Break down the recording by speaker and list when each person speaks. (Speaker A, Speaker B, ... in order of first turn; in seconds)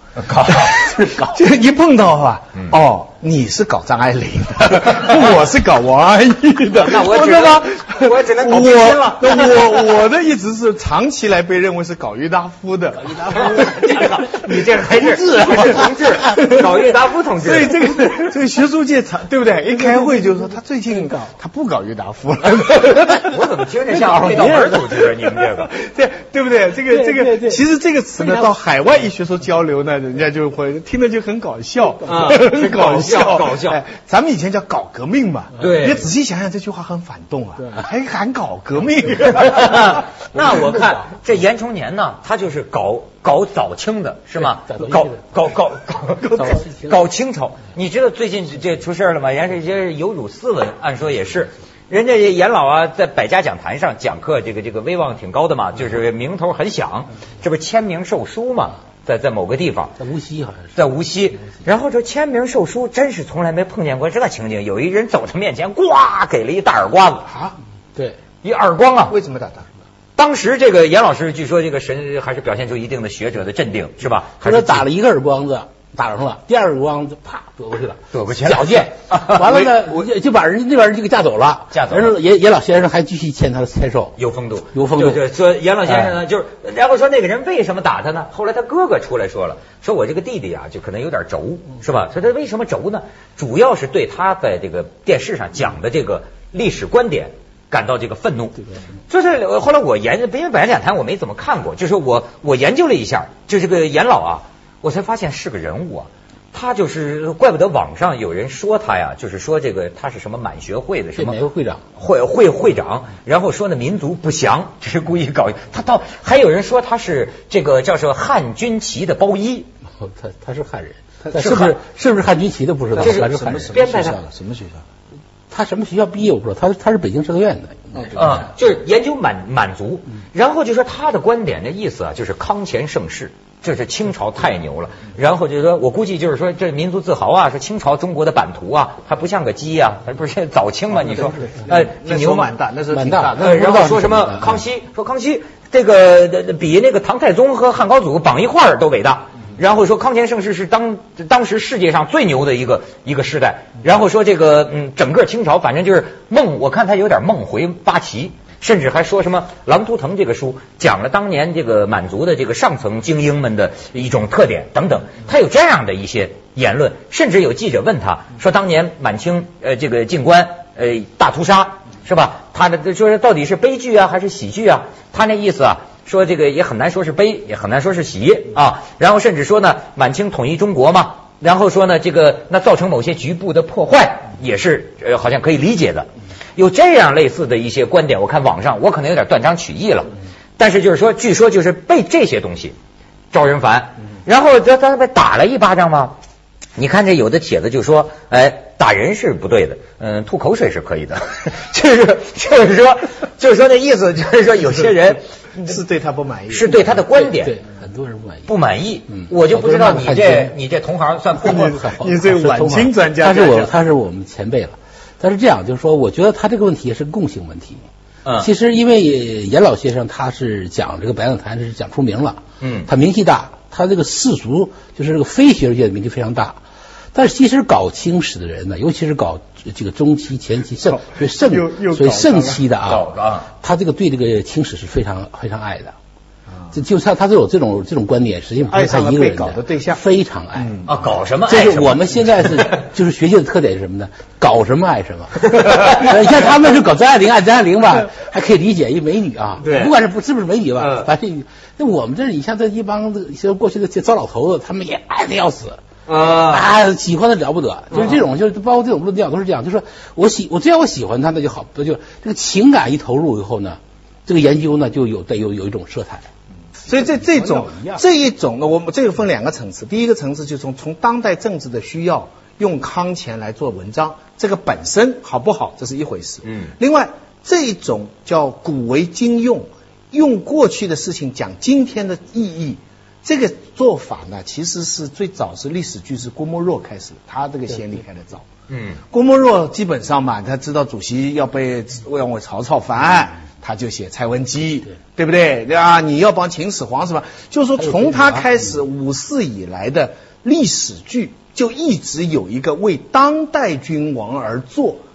Speaker A: 0.2-0.8, 6.7-9.9, 13.3-17.8, 23.0-25.7, 32.0-33.8, 35.6-36.1, 39.4-59.9, 60.8-67.3, 68.4-69.2, 70.2-74.9, 78.1-80.1, 81.7-82.2, 84.2-111.4, 112.0-119.7, 121.3-121.8, 123.0-124.2, 128.1-142.5, 143.3-192.8, 193.3-196.2, 196.8-205.8, 206.5-207.6, 208.5-211.7, 222.6-222.9, 232.9-233.5, 240.9-242.8, 249.6-249.9, 250.8-251.1, 256.1-256.7, 257.9-258.2, 276.4-276.7, 288.7-289.0
Speaker B: 0.5-13.8, 16.4-16.7, 17.4-23.4, 25.6-39.7, 69.1-69.7, 122.9-124.8, 127.9-128.4, 141.6-143.6, 205.7-206.7, 211.5-213.8, 230.8-232.7, 238.7-240.0, 240.6-241.0, 266.9-288.5, 289.1-305.0
Speaker C: 1.0-1.3, 13.0-16.3, 19.7-21.3, 23.9-25.2, 26.9-27.6, 28.2-28.5, 40.3-41.1, 44.4-45.4, 46.4-47.0, 60.0-60.7, 67.3-68.2, 74.4-84.2, 84.7-85.2, 85.9-86.2, 111.2-111.8, 120.0-123.7, 125.5-128.4, 142.9-144.6, 206.9-208.5, 209.1-210.6, 211.4-217.8, 218.4-226.6, 227.1-233.1, 233.6-235.9, 236.7-240.7, 241.5-255.8, 256.4-266.3, 266.9-268.0, 297.8-298.5